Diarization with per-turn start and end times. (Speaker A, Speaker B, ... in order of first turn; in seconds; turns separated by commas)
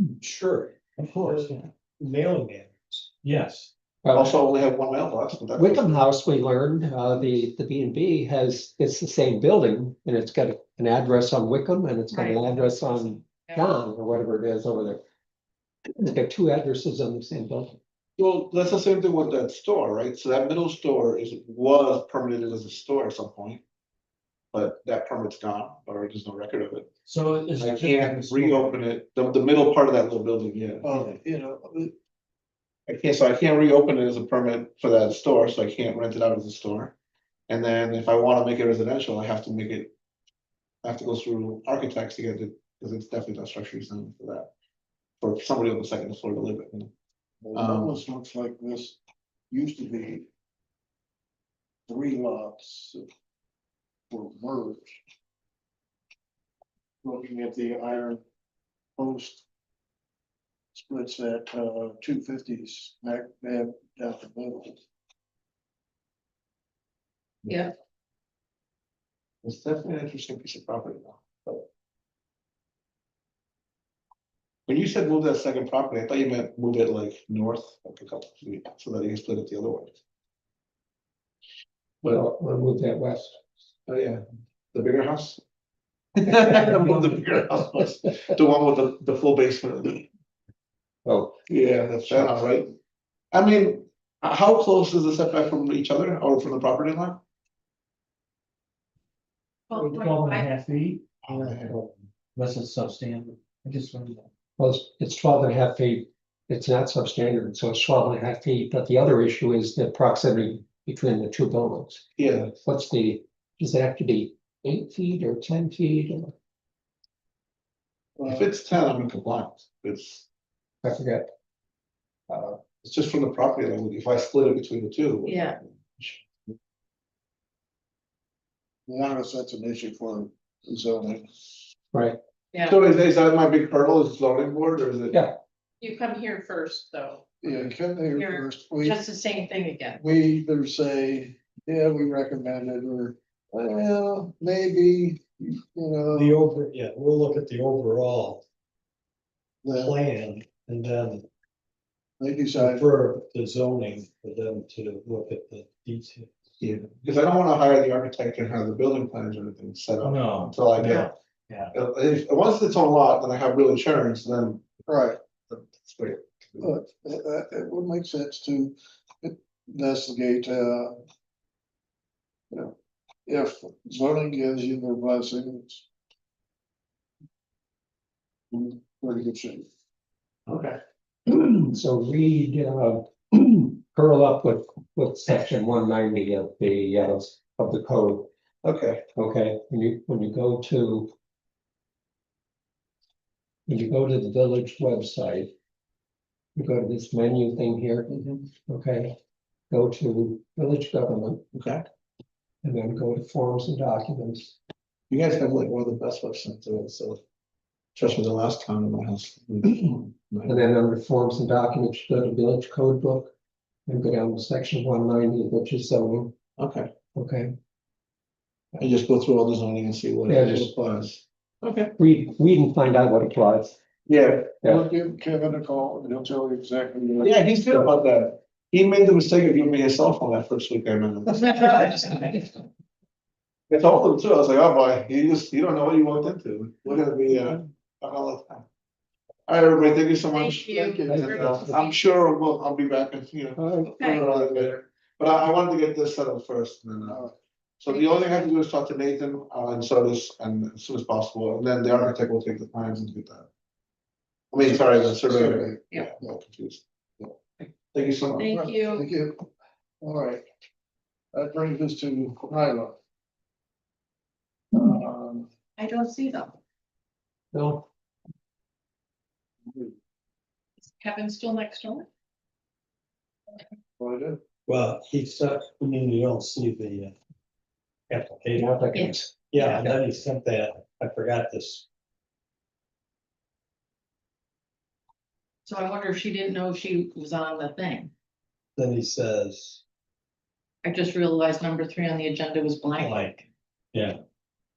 Speaker A: 0.2-3.1, Speaker B: 1.1-1.6, Speaker B: 3.2-3.7, Speaker C: 4.0-4.4, Speaker D: 4.1-5.9, Speaker C: 5.5-15.0, Speaker E: 12.1-12.6, Speaker E: 13.2-13.6, Speaker C: 16.0-17.8, Speaker D: 18.2-23.6, Speaker D: 24.5-26.9, Speaker B: 27.1-28.9, Speaker D: 27.6-30.9, Speaker F: 30.8-31.9, Speaker D: 32.9-37.0, Speaker D: 37.5-39.9, Speaker D: 40.8-44.5, Speaker D: 45.2-46.9, Speaker F: 47.4-49.0, Speaker D: 47.5-48.0, Speaker F: 49.5-50.3, Speaker F: 51.9-53.1, Speaker F: 54.1-55.0, Speaker F: 57.0-58.2, Speaker F: 59.0-59.5, Speaker F: 60.7-64.8, Speaker E: 67.5-67.7, Speaker D: 69.4-71.7, Speaker D: 74.7-80.0, Speaker C: 82.0-83.4, Speaker D: 83.9-84.2, Speaker D: 84.7-85.4, Speaker D: 86.2-90.1, Speaker C: 86.3-87.0, Speaker C: 91.0-91.3, Speaker D: 91.5-92.7, Speaker D: 93.3-97.2, Speaker E: 99.7-100.5, Speaker B: 99.7-104.3, Speaker D: 101.2-101.8, Speaker C: 104.6-112.0, Speaker D: 112.2-112.6, Speaker C: 112.6-116.3, Speaker F: 118.2-118.5, Speaker D: 118.3-120.3, Speaker C: 120.8-121.3, Speaker D: 122.3-126.2, Speaker E: 125.3-125.6, Speaker F: 128.9-131.5, Speaker C: 131.9-132.2, Speaker D: 132.6-135.2, Speaker C: 135.1-135.4, Speaker E: 135.8-137.2, Speaker F: 137.4-139.0, Speaker E: 138.1-140.0, Speaker F: 140.0-146.4, Speaker A: 146.2-148.4, Speaker F: 149.6-150.0, Speaker A: 149.9-151.3, Speaker F: 152.2-152.9, Speaker A: 152.6-156.3, Speaker D: 156.6-161.1, Speaker B: 160.0-160.6, Speaker E: 160.8-161.1, Speaker D: 161.7-164.7, Speaker F: 164.9-165.2, Speaker D: 165.5-166.7, Speaker F: 166.6-171.0, Speaker F: 173.3-175.8, Speaker F: 178.5-179.7, Speaker D: 180.5-180.8, Speaker C: 181.6-188.3, Speaker D: 188.6-189.0, Speaker C: 189.2-191.1, Speaker C: 193.7-195.5, Speaker C: 196.6-199.2, Speaker D: 198.1-198.4, Speaker C: 199.7-201.4, Speaker D: 201.5-201.8, Speaker C: 202.6-204.6, Speaker D: 205.1-207.2, Speaker D: 208.0-210.6, Speaker C: 210.5-213.3, Speaker C: 213.9-216.3, Speaker D: 216.6-216.9, Speaker C: 217.2-217.5, Speaker D: 218.8-221.9, Speaker C: 220.3-220.7, Speaker C: 222.0-223.8, Speaker D: 224.1-224.6, Speaker F: 224.7-227.3, Speaker D: 227.2-232.4, Speaker E: 231.6-232.1, Speaker D: 233.7-238.7, Speaker D: 239.5-247.2, Speaker E: 240.3-242.0, Speaker F: 240.7-241.2, Speaker C: 241.1-241.8, Speaker C: 243.6-244.0, Speaker E: 244.0-244.2, Speaker F: 244.1-244.7, Speaker F: 247.1-247.4, Speaker D: 247.8-253.5, Speaker E: 247.9-248.5, Speaker D: 254.5-256.8, Speaker F: 254.6-256.4, Speaker D: 257.9-258.5, Speaker E: 258.4-259.1, Speaker F: 258.5-259.5, Speaker F: 260.0-260.5, Speaker F: 261.3-263.0, Speaker F: 264.8-265.5, Speaker E: 265.8-266.6, Speaker C: 267.5-267.9, Speaker F: 269.7-269.9, Speaker E: 270.9-272.1, Speaker F: 274.0-274.4, Speaker A: 274.7-277.1, Speaker A: 278.2-278.6, Speaker C: 278.6-280.0, Speaker E: 278.9-279.8, Speaker A: 279.7-281.8, Speaker E: 285.7-288.1, Speaker A: 288.8-289.8, Speaker E: 290.8-293.2